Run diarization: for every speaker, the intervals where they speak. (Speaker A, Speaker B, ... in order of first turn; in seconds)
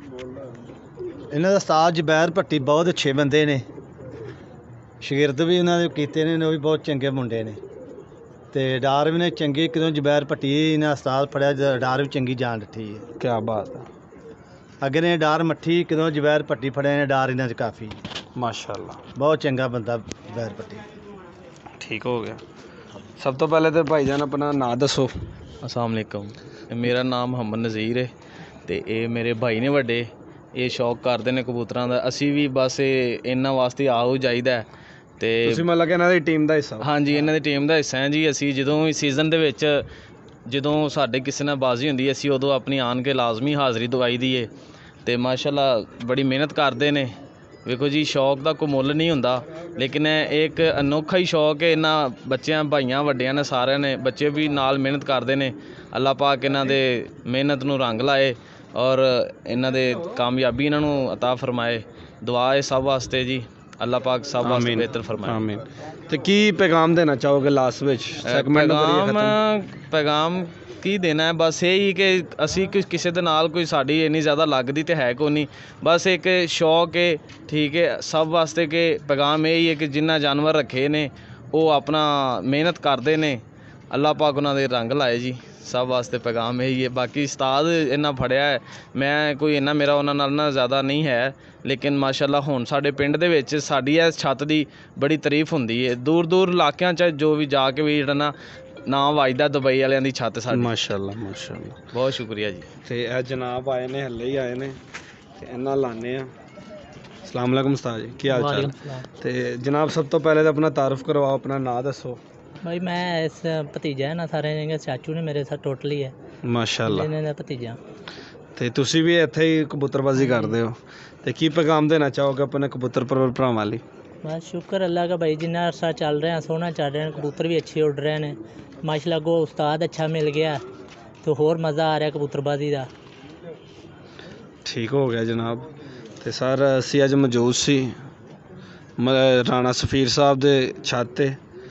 Speaker A: 1.3-3.6, 5.0-7.6, 8.5-13.1, 14.8-18.0, 19.2-20.9
Speaker B: 13.2-13.9, 18.4-19.0, 21.8-22.4, 23.2-25.1, 35.4-36.9, 64.4-69.4, 100.5-101.9, 102.8-104.8, 105.4-106.3, 107.2-112.2, 116.4-117.1, 118.6-123.8, 134.7-135.7, 136.2-138.0, 139.0-141.4
Speaker C: 25.6-28.1, 28.7-34.7, 35.2-35.6, 36.8-39.9, 40.5-44.5, 45.0-65.5, 68.2-98.3, 98.9-100.7, 101.9-102.7
Speaker D: 108.3-109.1, 112.6-116.2, 116.8-117.8, 120.2-120.6, 124.2-130.6, 131.2-132.9